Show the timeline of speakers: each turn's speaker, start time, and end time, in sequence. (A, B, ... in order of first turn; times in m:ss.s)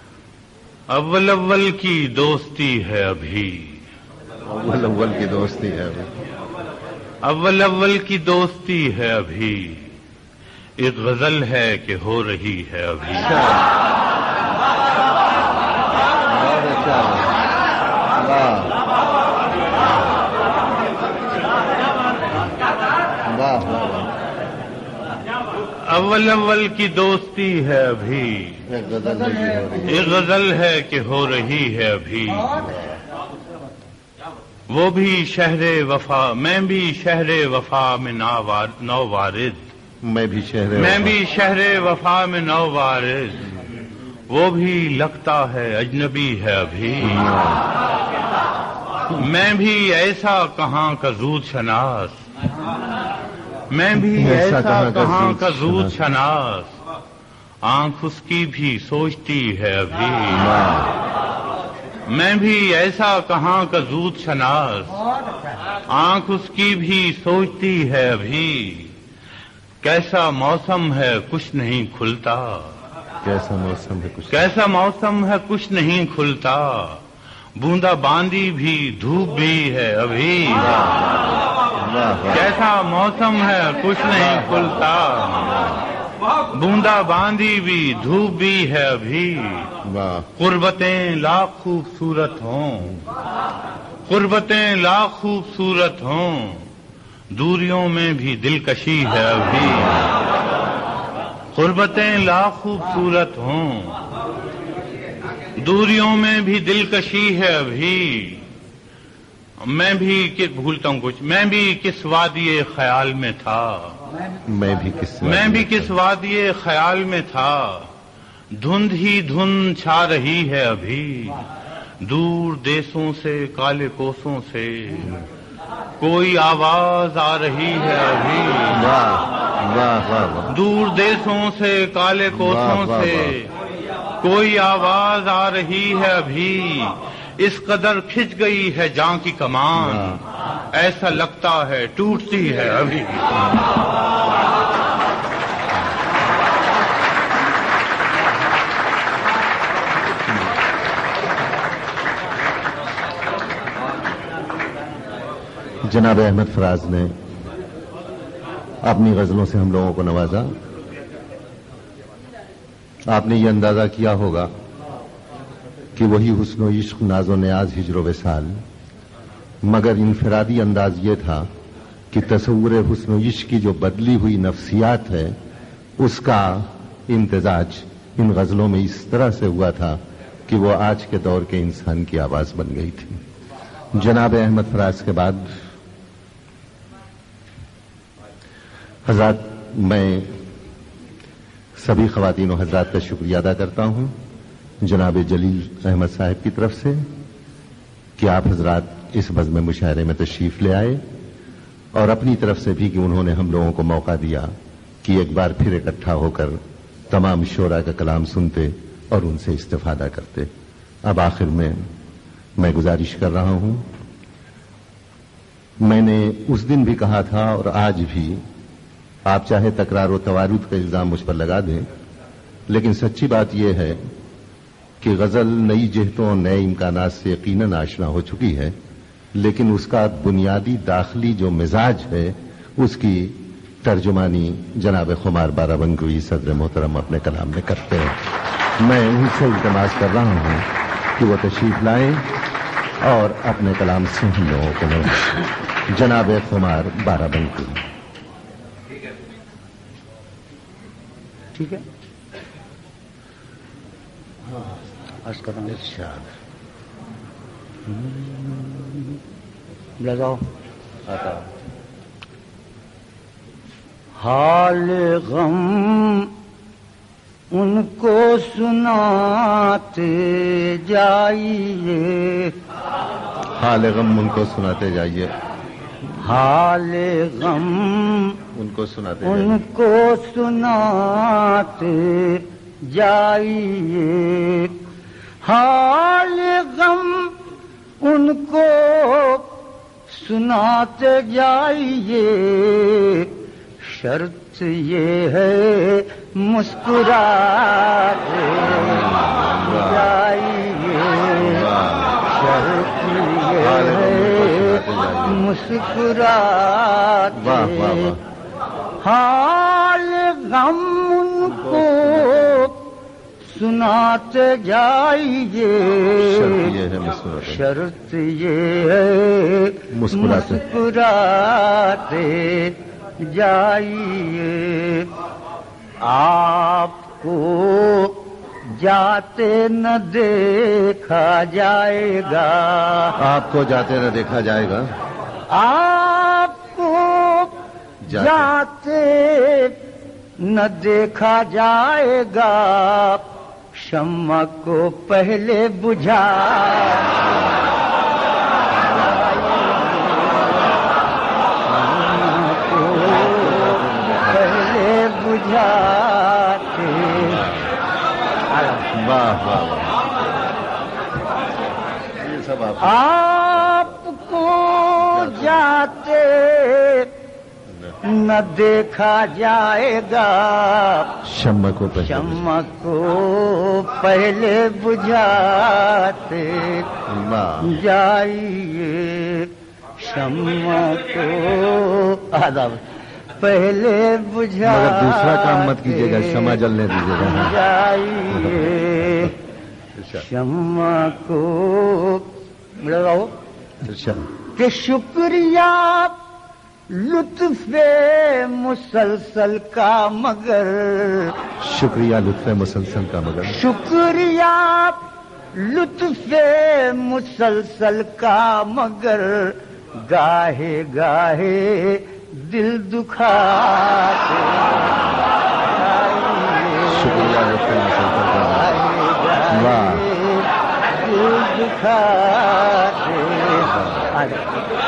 0:00.9-0:03.8 A
0:04.4-0:06.1 B
0:07.2-0:09.9 A
0:10.8-0:13.4 A
0:13.2-0:13.7 B
0:16.2-0:17.4 B
0:18.2-0:18.8 B
0:23.2-0:24.1 B
0:25.8-0:28.6 A
0:28.7-0:30.1 B
0:29.0-0:29.8 C
0:29.8-0:32.7 A
0:32.4-0:32.8 C
0:34.7-0:39.6 A
0:40.0-0:41.2 B
0:40.8-0:43.6 A
0:44.3-0:47.3 A
0:47.0-0:47.7 B
0:49.1-0:52.2 A
0:53.7-0:56.8 A
0:54.0-0:56.0 B
0:57.6-1:00.6 A
1:00.3-1:00.9 B
1:02.1-1:05.0 A
1:05.8-1:08.9 A
1:09.8-1:12.7 A
1:13.2-1:14.5 B
1:14.3-1:17.0 A
1:17.6-1:20.8 A
1:20.5-1:22.6 B
1:22.3-1:25.6 A
1:24.1-1:25.8 B
1:26.5-1:29.7 A
1:29.8-1:30.3 B
1:30.4-1:33.0 A
1:34.1-1:36.7 A
1:37.3-1:40.1 A
1:39.7-1:40.1 B
1:41.5-1:44.0 A
1:45.6-1:48.4 A
1:49.6-1:54.0 A
1:54.4-1:55.9 B
1:55.2-1:57.9 A
1:58.5-2:01.4 A
2:02.0-2:05.2 A
2:06.0-2:08.9 A
2:08.7-2:10.5 B
2:10.5-2:13.5 A
2:12.3-2:13.4 B
2:14.2-2:23.4 A
2:19.8-2:20.2 B
2:35.8-2:37.2 B
2:38.8-2:40.5 B
2:43.1-2:44.5 B
2:46.0-2:48.6 B
2:49.6-2:51.5 B
2:52.1-2:55.4 B
2:56.0-3:03.2 B
3:03.9-3:05.5 B
3:09.1-3:10.3 B
3:11.8-3:14.2 B
3:14.8-3:17.0 B
3:18.2-3:21.0 B
3:22.0-3:24.5 B
3:25.0-3:30.5 B
3:31.0-3:31.8 B
3:32.6-3:33.9 B
3:35.8-3:38.4 B
3:39.3-3:41.9 B
3:42.7-3:44.0 B
3:45.0-3:48.8 B
3:49.3-3:58.2 B
3:58.8-4:02.3 B
4:03.0-4:07.9 B
4:11.6-4:11.8 C
4:15.2-4:15.9 C
4:15.7-4:16.3 B
4:17.9-4:19.2 C
4:20.0-4:20.4 C
4:21.1-4:21.5 B
4:24.2-4:26.3 C
4:27.5-4:32.5 C
4:33.6-4:35.3 B
4:36.2-4:38.4 C
4:38.5-4:39.6 B
4:39.2-4:44.8 C
4:45.4-4:47.4 C
4:48.0-4:49.5 C
4:50.1-5:01.7 C
4:58.6-5:00.1 B
5:01.4-5:02.3 B
5:02.2-5:08.2 C
5:03.5-5:05.5 B
5:07.3-5:08.2 B
5:09.0-5:12.8 C
5:11.5-5:12.7 B
5:13.5-5:16.8 C
5:16.2-5:17.6 B
5:17.4-5:25.1 C
5:19.9-5:20.6 B
5:26.0-5:33.2 C
5:33.2-5:34.9 B
5:35.5-5:37.6 C
5:38.0-5:38.5 B
5:38.1-5:39.8 C
5:40.4-5:47.1 C
5:47.1-5:47.7 B
5:48.9-5:49.2 B
5:48.9-5:50.7 C
5:51.6-5:57.5 C
5:53.0-5:54.8 B
5:57.1-5:57.7 B
5:58.5-5:58.9 C
5:58.9-6:00.0 B
6:02.2-6:03.0 B
6:02.8-6:07.1 C
6:05.0-6:05.7 B
6:08.0-6:11.1 C
6:11.2-6:12.5 B
6:12.0-6:16.9 C
6:17.1-6:17.8 B
6:17.6-6:22.8 C
6:23.4-6:26.6 C
6:24.6-6:27.6 B
6:27.2-6:29.3 C
6:28.3-6:29.3 B
6:30.0-6:30.3 B
6:30.1-6:33.3 C
6:33.8-6:34.2 B
6:34.6-6:36.2 C
6:36.9-6:41.4 C
6:41.6-6:43.6 B
6:43.5-6:45.0 C
6:45.5-6:57.4 C
6:56.9-6:58.8 B
6:58.4-7:04.5 C
6:59.5-7:00.1 B
7:03.6-7:04.2 B